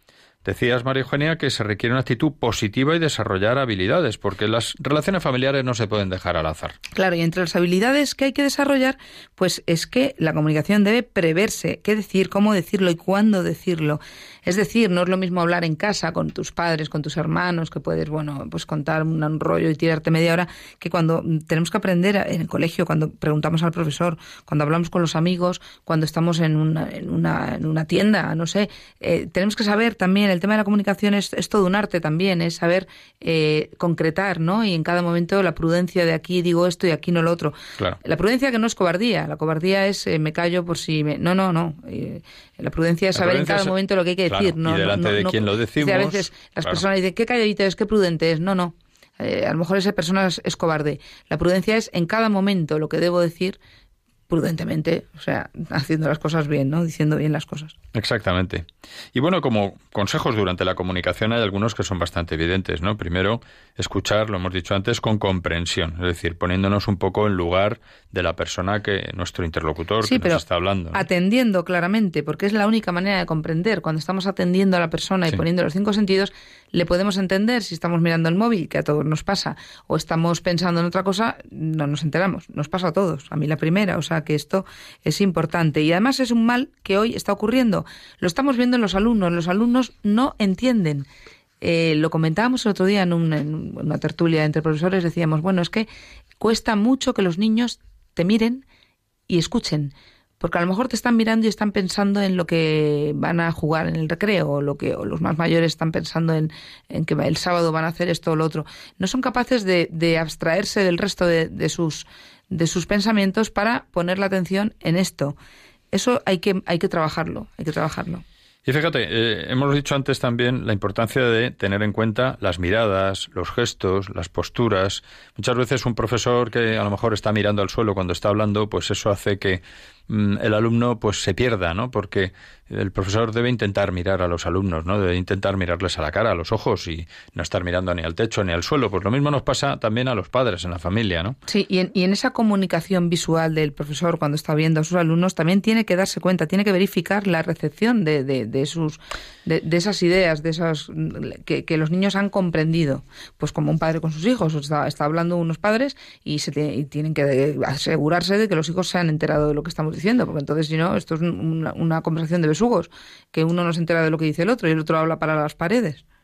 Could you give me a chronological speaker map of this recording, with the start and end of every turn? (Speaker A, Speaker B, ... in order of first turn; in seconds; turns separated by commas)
Speaker A: 0.4-6.8, Speaker B: 6.9-53.6, Speaker A: 43.1-46.8, Speaker B: 54.3-57.8, Speaker A: 57.9-71.0, Speaker B: 70.0-70.4, Speaker B: 70.9-91.1, Speaker B: 91.6-95.9, Speaker B: 96.4-98.6, Speaker B: 99.3-115.3, Speaker B: 115.9-118.2, Speaker A: 118.7-141.4, Speaker B: 141.5-166.0